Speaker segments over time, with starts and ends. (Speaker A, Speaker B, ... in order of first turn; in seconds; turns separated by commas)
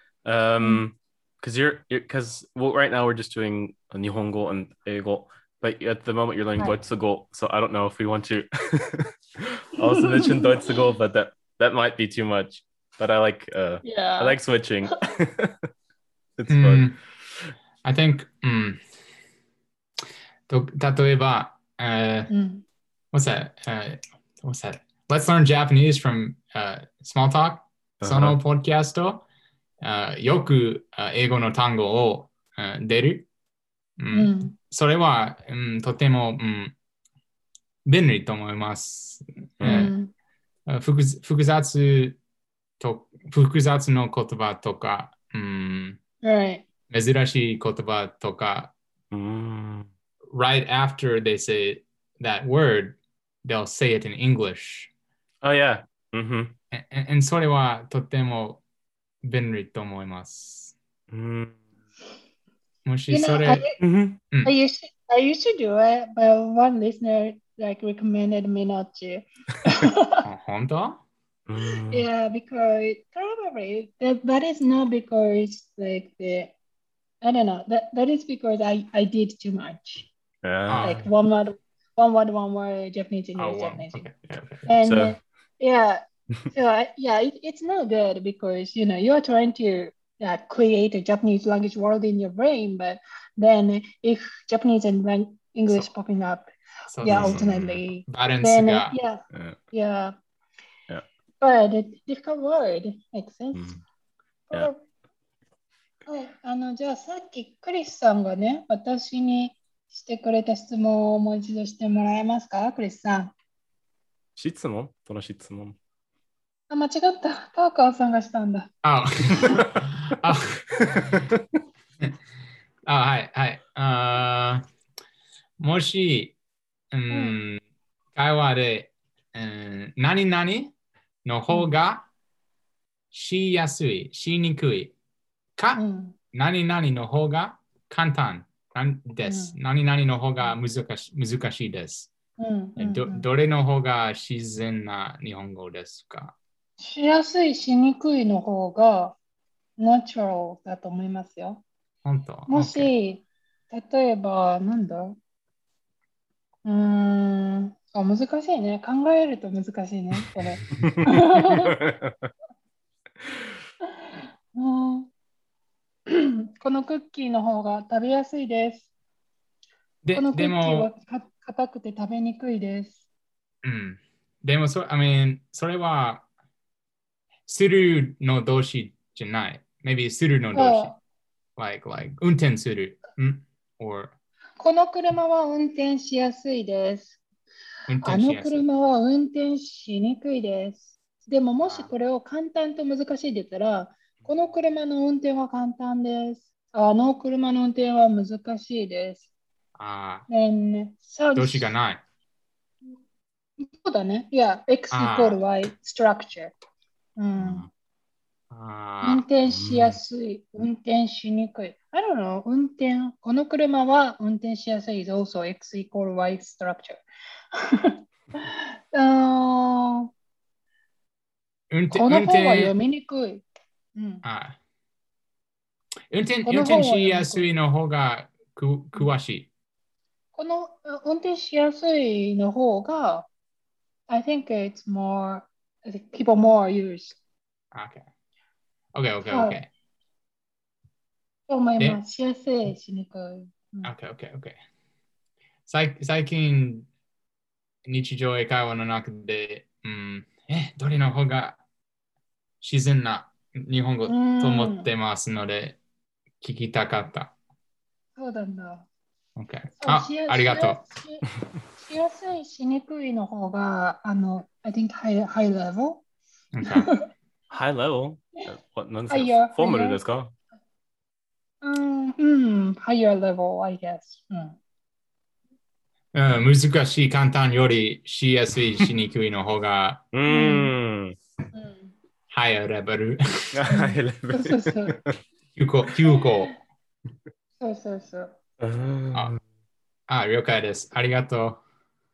Speaker A: 0.2-15.6, Speaker B: 9.8-10.8, Speaker B: 13.8-14.4, Speaker A: 16.4-16.9, Speaker C: 16.5-17.0, Speaker C: 17.8-18.8, Speaker C: 20.5-22.3, Speaker B: 22.3-22.6, Speaker C: 23.1-29.2, Speaker A: 28.0-28.4, Speaker C: 29.8-33.2, Speaker C: 34.0-36.7, Speaker B: 34.1-34.5, Speaker C: 37.9-39.9, Speaker A: 39.6-39.9, Speaker B: 39.6-40.1, Speaker C: 40.7-42.2, Speaker C: 42.8-46.0, Speaker B: 46.2-46.6, Speaker C: 46.9-48.7, Speaker A: 49.1-49.9, Speaker C: 50.3-54.9, Speaker A: 55.4-56.5, Speaker C: 56.7-58.6, Speaker C: 59.2-60.7, Speaker A: 61.1-61.6, Speaker C: 62.8-63.6, Speaker B: 63.1-63.8, Speaker A: 63.8-64.2, Speaker B: 64.4-70.2, Speaker C: 70.2-71.0, Speaker A: 71.5-72.1, Speaker B: 71.7-76.5, Speaker B: 77.2-80.1, Speaker A: 80.4-81.0, Speaker C: 80.7-81.0, Speaker B: 80.8-84.1, Speaker C: 83.4-84.7, Speaker A: 84.3-85.2, Speaker B: 84.7-100.1, Speaker C: 96.9-99.0, Speaker A: 97.1-97.8, Speaker A: 99.3-99.6, Speaker B: 101.4-103.8, Speaker A: 103.5-103.8, Speaker B: 104.5-104.8, Speaker B: 106.0-113.3, Speaker A: 114.3-115.8, Speaker B: 116.7-118.7, Speaker C: 118.8-121.2, Speaker A: 121.1-121.4, Speaker C: 122.8-124.6, Speaker C: 125.6-126.3, Speaker C: 126.9-127.6, Speaker B: 127.1-127.4, Speaker C: 128.1-130.7, Speaker C: 131.2-132.0, Speaker C: 133.1-134.9, Speaker B: 135.7-136.1, Speaker C: 136.3-142.1, Speaker B: 139.2-139.6, Speaker B: 142.4-143.3, Speaker C: 142.8-146.3, Speaker B: 146.8-149.2, Speaker B: 149.8-151.6, Speaker C: 152.0-152.9, Speaker B: 152.5-155.2, Speaker B: 156.6-161.8, Speaker A: 160.7-162.3, Speaker B: 164.0-165.1, Speaker B: 166.1-168.9, Speaker C: 170.0-170.9, Speaker B: 170.1-173.0, Speaker C: 173.6-176.2, Speaker C: 177.5-180.9, Speaker B: 180.5-181.0, Speaker C: 181.6-184.1, Speaker B: 184.6-187.2, Speaker C: 187.9-188.6, Speaker B: 188.0-199.3, Speaker C: 191.6-191.9, Speaker C: 199.8-200.3, Speaker B: 200.3-201.7, Speaker C: 201.3-202.0, Speaker B: 203.6-206.5, Speaker C: 204.9-205.4, Speaker B: 207.2-207.7, Speaker C: 208.5-209.2, Speaker B: 209.0-217.0, Speaker A: 209.5-210.0, Speaker B: 217.5-220.1, Speaker C: 221.7-222.7, Speaker B: 221.9-223.4, Speaker B: 223.9-224.2, Speaker C: 224.2-224.6, Speaker C: 226.1-229.5, Speaker B: 226.4-227.5, Speaker B: 230.3-233.3, Speaker B: 234.1-237.2, Speaker C: 237.7-238.0, Speaker C: 238.9-239.7, Speaker B: 239.2-239.6, Speaker B: 241.5-243.9, Speaker C: 243.8-244.6, Speaker C: 245.7-246.9, Speaker C: 247.8-251.6, Speaker C: 252.6-255.8, Speaker B: 254.1-254.9, Speaker C: 256.4-257.3, Speaker B: 258.2-258.9, Speaker C: 259.4-260.8, Speaker B: 259.8-261.2, Speaker B: 261.8-266.0, Speaker C: 266.5-266.9, Speaker B: 266.6-267.0, Speaker A: 267.5-270.3, Speaker B: 269.1-270.0, Speaker B: 271.6-274.6, Speaker C: 276.1-280.0, Speaker A: 280.1-281.1, Speaker B: 280.3-280.7, Speaker B: 281.5-281.9, Speaker C: 282.3-283.7, Speaker A: 283.5-285.1, Speaker B: 283.7-285.0, Speaker C: 285.5-286.5, Speaker B: 287.6-288.4, Speaker A: 288.6-289.4, Speaker C: 290.1-291.6